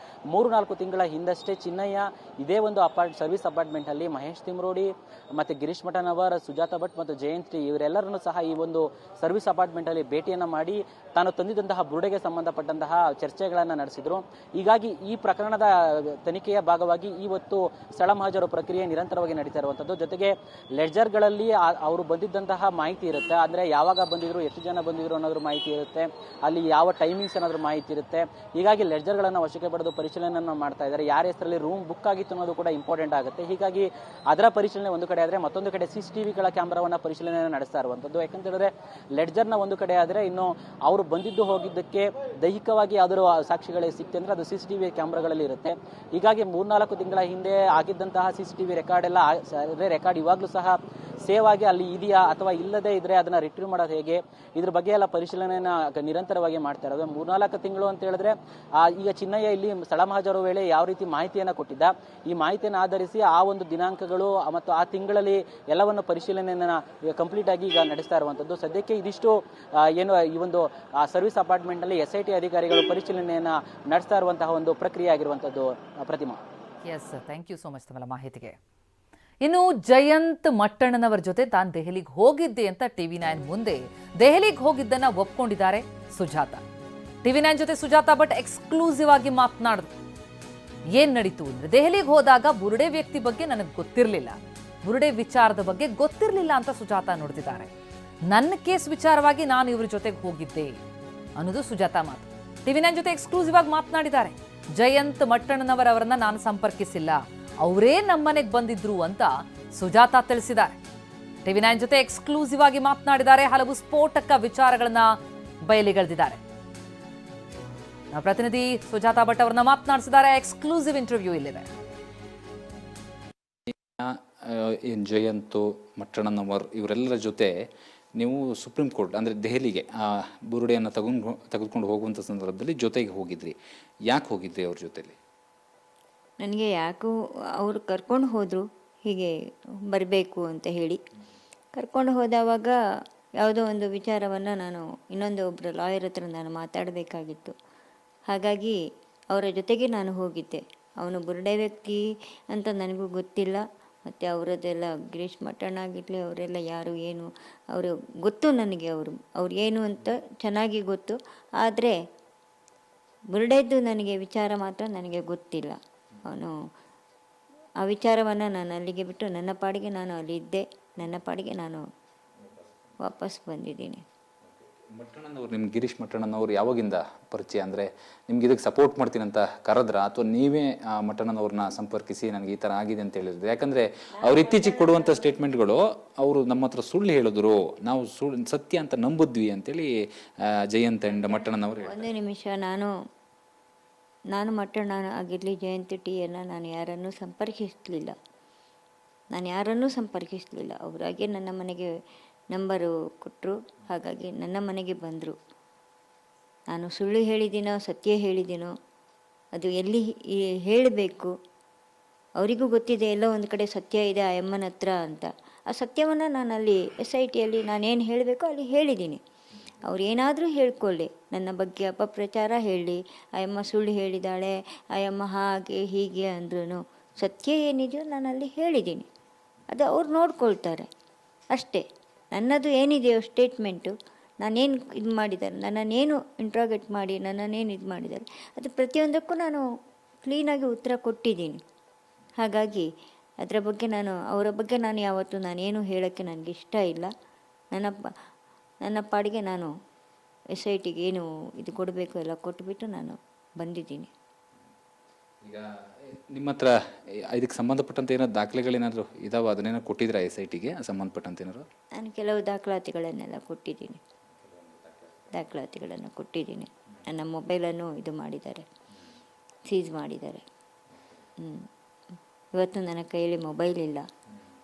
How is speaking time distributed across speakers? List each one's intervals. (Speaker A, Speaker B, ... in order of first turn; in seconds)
Speaker A: 0.3-76.4
Speaker B: 76.8-78.5, 79.4-86.6, 87.2-89.9, 91.0-97.7, 98.3-100.8, 101.4-110.8, 111.5-115.1, 115.7-116.4, 118.1-121.7
Speaker C: 123.7-127.5, 128.2-133.6, 134.1-135.2, 172.4-173.0, 174.5-189.9, 190.7-192.1, 255.4-256.7, 257.3-261.6, 264.3-265.3
Speaker D: 136.4-139.3, 139.9-141.0, 141.8-142.8, 143.4-147.5, 148.3-148.8, 149.3-161.9, 163.3-166.5, 167.8-171.8, 173.1-174.0, 184.4-185.1, 191.8-192.9, 194.3-198.1, 199.3-201.9, 202.5-205.3, 206.7-208.7, 209.6-210.1, 210.7-211.3, 212.4-219.2, 219.8-229.1, 229.7-230.9, 231.5-231.8, 232.3-239.6, 240.2-241.6, 242.4-242.9, 243.4-247.1, 248.8-249.7, 250.6-254.1, 262.0-264.0, 265.3-268.6, 269.7-270.4, 272.6-274.1